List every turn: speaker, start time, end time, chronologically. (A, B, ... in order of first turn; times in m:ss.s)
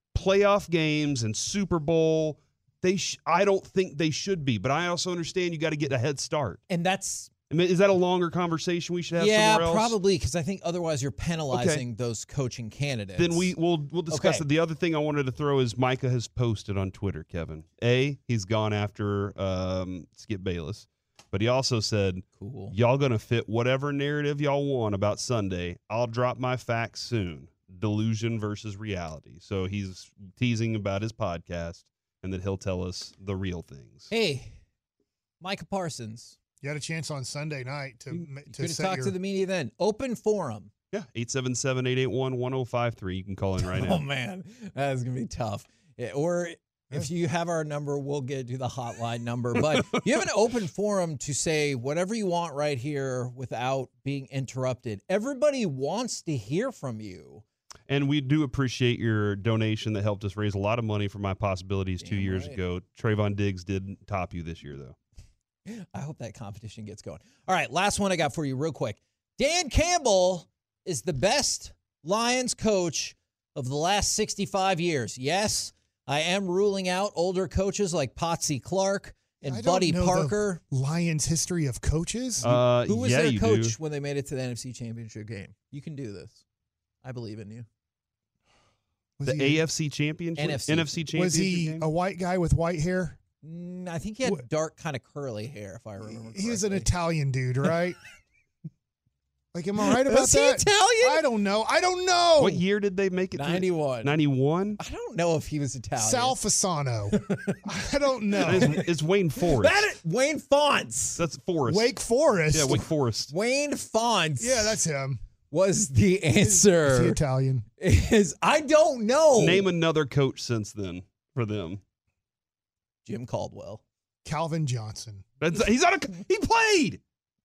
0:00.1-0:06.6 A
0:06.7-0:07.3 B
0:07.5-0:10.0 A
0:09.2-0:13.5 B
0:11.5-0:11.8 A
0:13.2-0:34.1 A
0:14.1-0:14.4 B
0:22.4-0:22.7 B
0:34.1-0:34.5 B
0:35.4-0:36.4 B
0:36.6-0:39.2 C
0:38.5-0:40.7 B
0:40.9-0:44.0 A
0:43.6-0:57.4 B
0:57.9-1:05.0 A
1:02.0-1:02.6 B
1:05.7-1:20.6 B
1:19.4-1:22.5 C
1:22.4-1:23.7 A
1:22.4-1:26.4 B
1:27.0-1:27.7 B
1:29.2-1:29.6 C
1:29.2-1:31.9 A
1:30.4-1:31.0 B
1:31.1-1:33.2 C
1:33.4-1:36.9 B
1:36.0-1:38.0 C
1:39.5-1:42.6 C
1:39.8-1:41.2 B
1:42.4-1:44.8 A
1:43.3-1:44.1 B
1:44.8-1:46.4 B
1:46.0-1:48.8 C
1:47.1-1:47.6 B
1:48.4-1:48.9 B
1:48.4-1:49.9 A
1:49.4-1:51.2 B
1:51.2-1:51.9 A
1:51.7-1:52.8 C
1:52.5-1:53.3 A
1:53.3-1:54.8 B
1:54.4-1:55.2 C
1:55.5-1:57.2 B
1:56.4-1:57.6 C
1:57.8-1:59.7 B
1:59.4-2:01.8 A
2:03.0-2:03.8 B
2:04.2-2:05.2 C
2:05.4-2:07.0 A